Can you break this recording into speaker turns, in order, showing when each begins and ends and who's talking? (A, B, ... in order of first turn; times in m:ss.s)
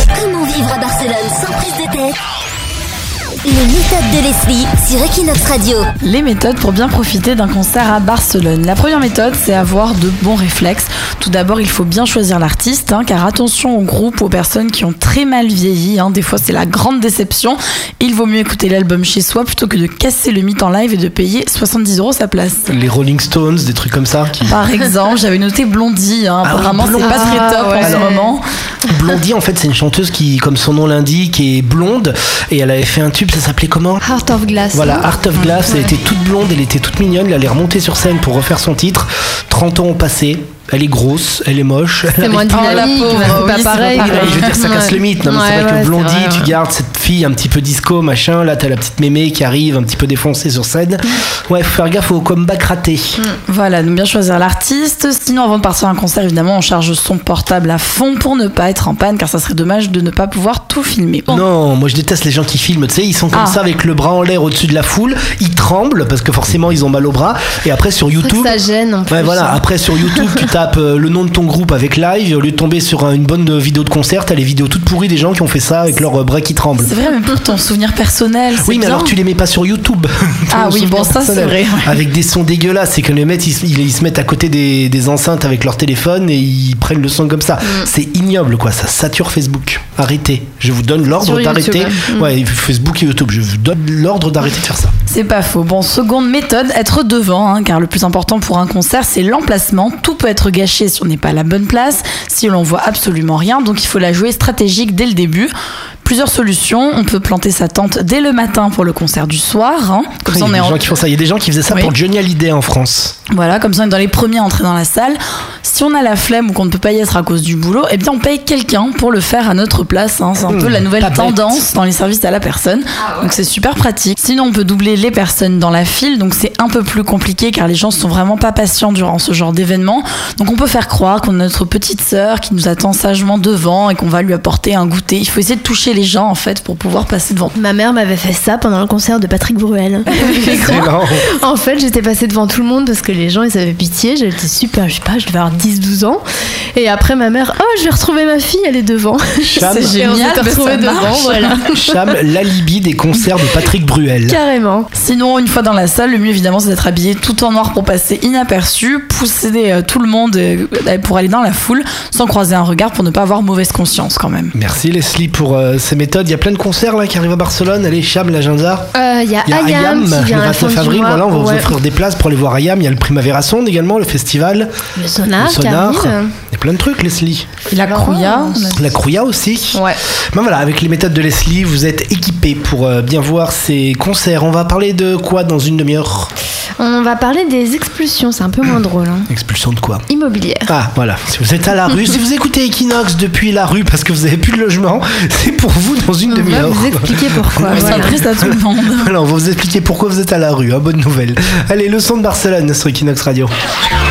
0:00.1-0:02.2 A
0:03.4-0:05.9 A
0:06.0-0:22.7 B
0:22.7-0:24.6 C
0:24.5-0:28.4 B
0:26.4-0:28.2 C
0:27.0-0:28.3 D
0:28.8-0:34.0 C
0:34.0-0:35.1 D
0:34.7-0:53.2 C
0:35.7-0:35.9 D
0:42.2-0:46.5 D
0:42.4-0:44.8 B
0:53.5-1:01.4 B
1:01.3-1:08.6 C
1:03.3-1:03.6 B
1:08.2-1:10.3 D
1:09.1-1:16.9 C
1:16.8-1:19.2 B
1:18.6-1:34.9 C
1:20.5-1:22.0 B
1:31.2-1:32.3 D
1:35.1-1:45.5 B
1:46.0-1:50.9 B
1:50.3-1:53.2 C
1:53.3-2:17.6 B
2:00.5-2:01.7 C
2:17.5-2:26.2 D
2:20.5-2:21.2 C
2:26.7-2:32.1 D
2:29.4-2:30.0 C
2:29.6-2:31.6 B
2:31.7-2:34.4 C
2:34.2-2:34.9 D
2:34.9-2:44.5 B
2:44.5-2:48.9 C
2:48.9-2:51.7 D
2:49.4-2:54.7 C
2:55.1-2:56.3 D
2:55.4-2:57.5 C
2:57.7-2:59.0 B
2:57.8-2:58.8 D
2:58.7-3:06.3 C
3:06.8-3:09.3 D
3:09.3-3:10.0 C
3:10.1-3:10.7 D
3:10.7-3:23.5 C
3:16.3-3:18.2 D
3:17.6-3:19.1 B